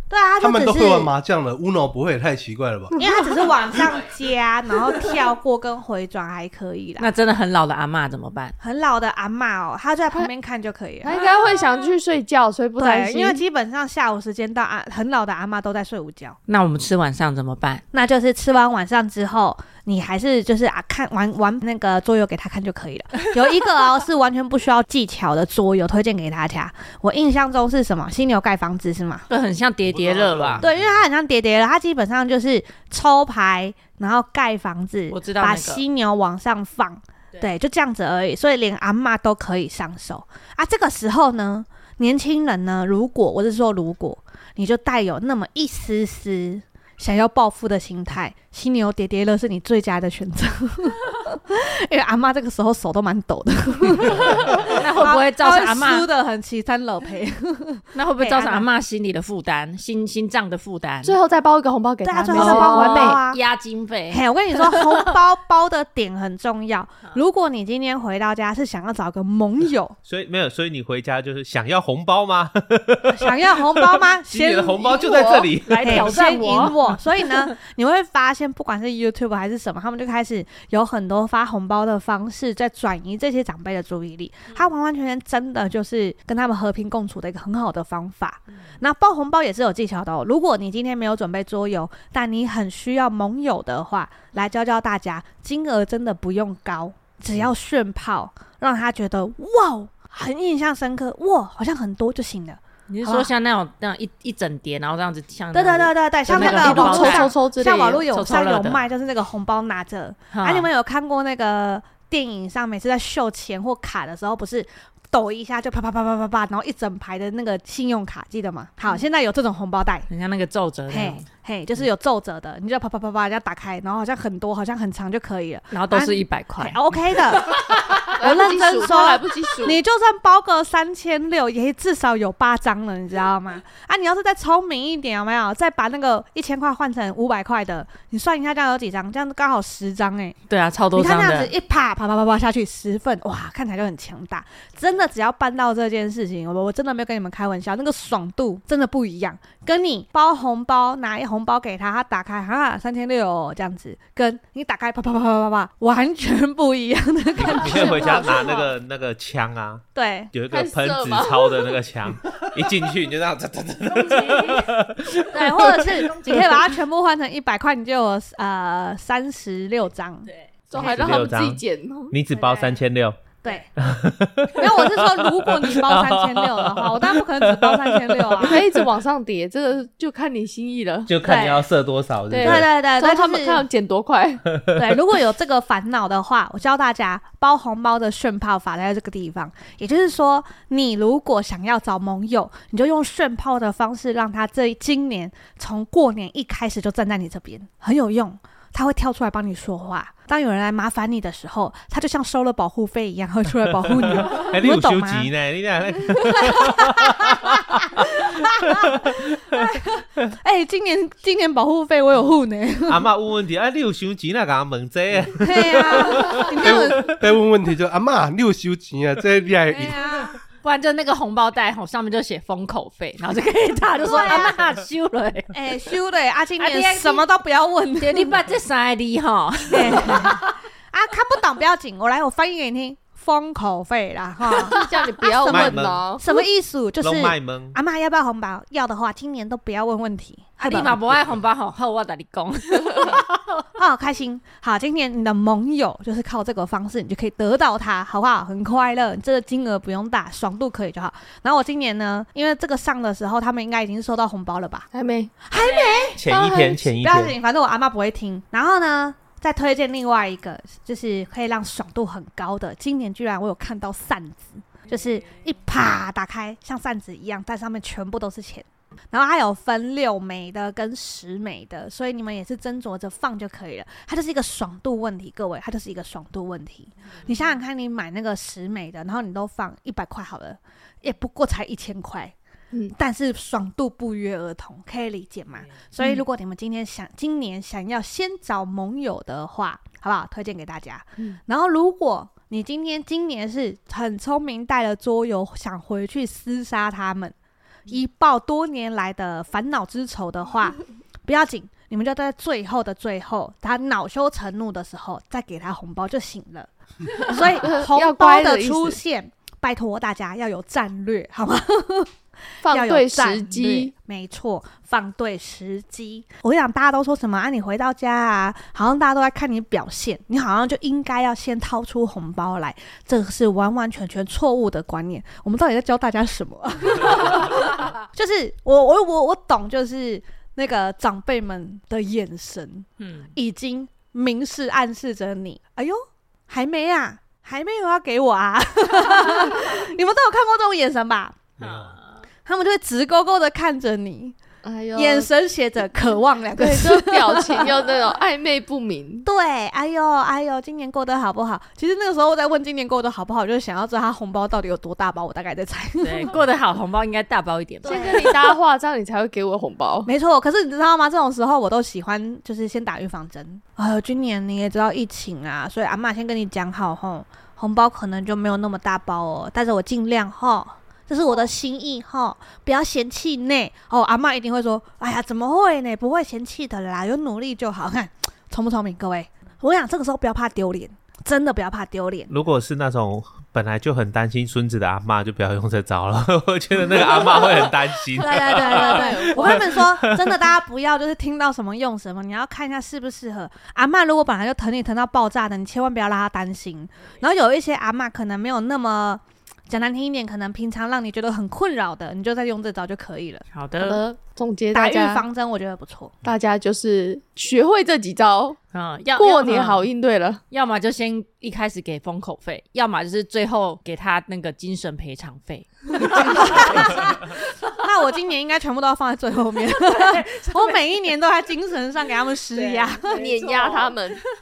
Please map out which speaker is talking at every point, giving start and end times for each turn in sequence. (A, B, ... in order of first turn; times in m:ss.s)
0:00.1-0:01.1 A
0:00.4-0:02.9 B
0:03.0-0:07.1 A
0:07.0-0:08.5 C
0:08.6-0:11.2 A
0:11.0-0:13.4 D
0:12.8-0:16.4 A
0:16.5-0:17.8 C
0:17.9-0:29.2 A
0:29.3-0:30.6 C
0:29.9-0:30.8 E
0:30.6-0:58.7 A
0:35.1-0:35.8 C
0:54.7-0:56.1 C
0:57.9-1:01.2 C
1:01.0-1:03.2 D
1:02.0-1:03.4 A
1:02.3-1:05.1 C
1:04.1-1:10.0 A
1:10.0-1:16.1 E
1:13.1-1:43.3 A
1:15.2-1:17.3 C
1:42.9-1:47.3 C
1:45.5-2:00.1 A
1:46.3-1:48.1 D
1:48.1-1:48.8 C
1:50.3-1:50.7 C
2:00.1-2:01.2 C
2:00.9-2:07.6 A
2:05.7-2:07.0 C
2:07.5-2:08.0 C
2:08.2-2:09.8 D
2:08.2-2:20.4 A
2:20.5-2:21.5 C
2:20.9-2:38.5 A
2:37.4-2:45.9 E
2:37.7-2:38.7 D
2:39.9-2:40.3 A
2:40.5-2:41.8 D
2:43.9-2:44.7 C
2:45.3-2:46.6 C
2:45.3-2:51.2 A
2:50.3-2:51.1 C
2:50.7-2:52.2 D
2:50.8-2:53.2 E
2:52.4-2:52.8 A
2:53.4-2:53.7 A
2:53.8-2:58.6 E
2:54.5-2:58.6 A
2:58.4-3:01.1 D
3:01.1-3:02.7 E
3:01.2-3:01.7 A
3:02.3-3:04.4 D
3:02.4-3:03.6 A
3:04.7-3:25.3 A
3:24.0-3:29.1 E
3:26.1-3:27.5 A
3:28.2-3:28.7 A
3:29.5-3:33.1 A
3:32.9-3:37.1 E
3:35.4-3:37.1 A
3:36.6-3:40.1 B
3:39.7-3:40.4 A
3:40.6-3:45.5 C
3:44.0-3:44.6 A
3:45.5-3:48.4 A
3:46.6-3:47.2 C
3:48.0-3:50.5 C
3:49.7-4:01.0 A
3:54.5-3:56.2 D
3:55.4-3:56.1 E
3:57.0-3:57.8 E
4:00.6-4:03.6 C
4:03.8-4:14.9 A
4:14.9-4:15.3 D
4:15.4-4:16.3 A
4:15.6-4:16.1 C
4:16.2-4:17.4 E
4:16.3-4:16.8 D
4:16.9-4:42.3 A
4:42.9-4:57.3 A
4:57.9-5:12.1 A
5:07.3-5:09.0 D
5:12.6-5:13.9 D
5:12.7-5:41.4 A
5:33.0-5:33.3 C
5:41.6-5:42.2 C
5:41.6-5:41.9 E
5:42.4-5:44.4 A
5:44.6-5:45.3 D
5:44.9-5:47.9 A
5:46.6-5:49.2 D
5:49.2-5:56.3 A
5:56.0-5:58.1 C
5:57.8-6:00.1 D
5:57.9-5:58.5 A
6:00.0-6:22.3 A
6:22.3-6:29.2 E
6:26.9-6:27.7 D
6:28.2-6:43.4 A
6:28.2-6:29.9 D
6:29.9-6:30.2 E
6:43.5-6:44.0 C
6:43.8-6:45.2 D
6:44.7-6:46.2 A
6:46.2-6:48.6 D
6:48.7-6:49.9 C
6:49.2-6:50.4 D
6:50.5-6:57.2 C
6:56.2-6:57.1 A
6:57.8-7:03.0 A
6:59.9-7:00.8 C
7:02.5-7:04.1 C
7:03.0-7:04.2 D